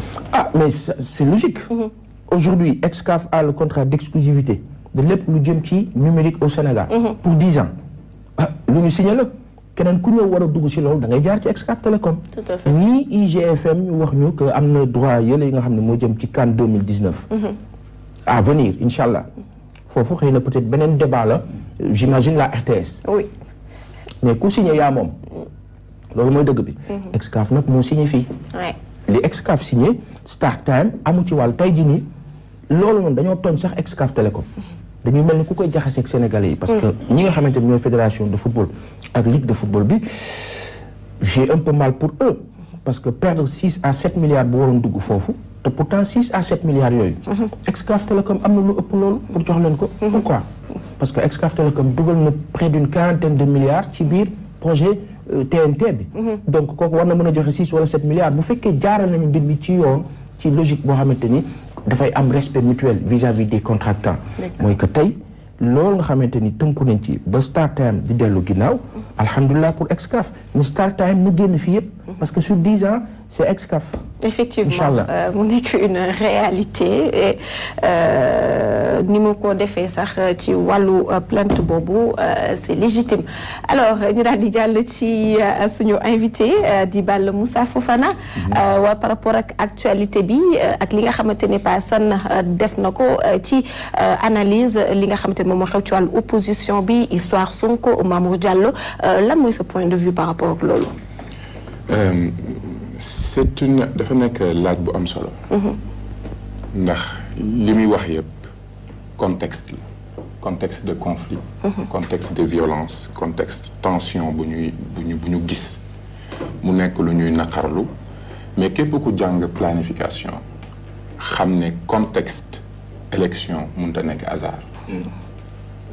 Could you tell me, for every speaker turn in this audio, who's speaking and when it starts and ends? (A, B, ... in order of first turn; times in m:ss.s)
0:00.3-0:01.7 A
0:02.3-0:07.7 A
0:06.9-0:07.2 B
0:08.4-0:17.3 A
0:12.4-0:12.7 B
0:18.2-0:19.3 A
0:19.9-0:23.0 A
0:23.0-0:23.3 B
0:24.2-0:25.2 A
0:26.1-0:28.3 A
0:29.1-0:32.0 A
0:32.7-0:34.5 A
0:35.0-0:40.4 A
0:41.2-0:50.5 A
0:51.0-1:14.0 A
1:14.2-1:40.9 B
1:14.6-1:15.1 A
1:41.9-1:45.4 C
1:45.5-1:45.8 B
1:46.7-1:48.3 C
1:49.2-1:49.8 C
1:50.4-1:55.8 C
1:56.6-1:57.9 C
1:58.6-2:00.4 C
2:01.2-2:05.0 C